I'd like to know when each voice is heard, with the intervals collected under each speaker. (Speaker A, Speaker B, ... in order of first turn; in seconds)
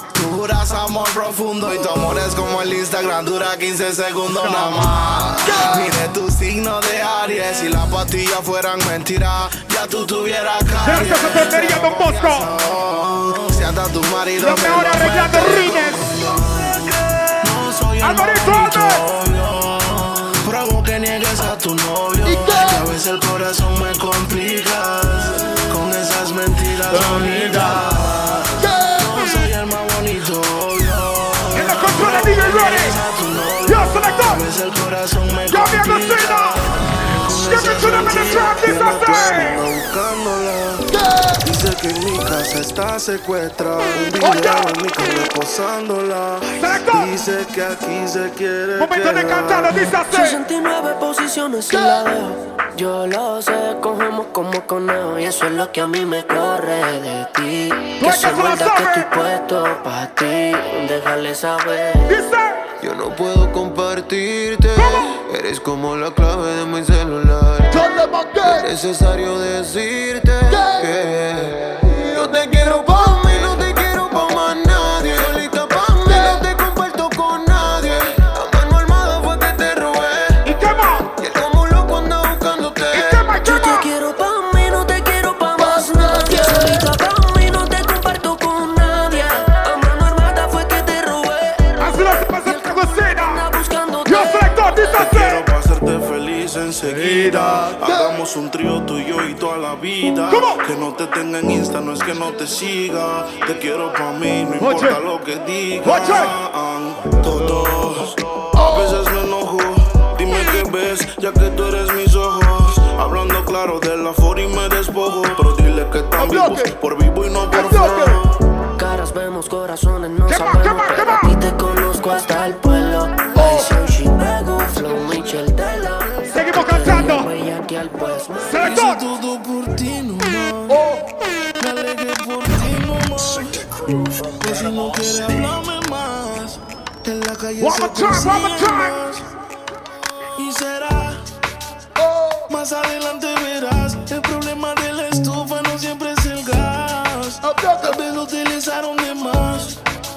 Speaker A: 0.1-40.9, 41.4-49.8, 94.9-118.3, 128.6-130.8, 131.6-133.7, 134.4-139.2, 140.4-141.2, 142.5-149.8
Speaker B: 5.4-6.0, 22.2-22.9, 27.4-27.7, 28.6-29.2, 40.9-41.4, 51.7-52.0, 67.7-68.7, 70.5-70.9, 71.8-73.3, 76.0-76.5, 85.6-86.9, 97.5-98.2, 108.5-109.1, 116.2-116.8, 117.5-118.2, 123.3-123.7, 130.7-131.1, 142.0-142.5, 147.4-148.0
Speaker C: 10.8-12.5, 14.4-16.1, 18.0-19.1, 27.0-27.8, 31.5-33.0, 33.7-34.4, 35.5-36.7, 37.3-39.6, 44.0-44.8, 46.6-47.1, 48.8-50.4, 58.0-59.1, 62.1-62.6, 64.8-65.2, 80.4-81.1, 82.9-83.9, 91.8-93.5, 94.0-95.4, 96.8-97.7, 100.3-100.6, 104.6-105.0, 105.8-106.3, 120.3-121.3, 126.3-127.3, 128.4-129.0, 137.6-139.0
Speaker D: 50.0-62.2, 83.4-94.9, 118.8-128.6
Speaker E: 62.8-67.8, 68.5-80.4, 81.2-83.2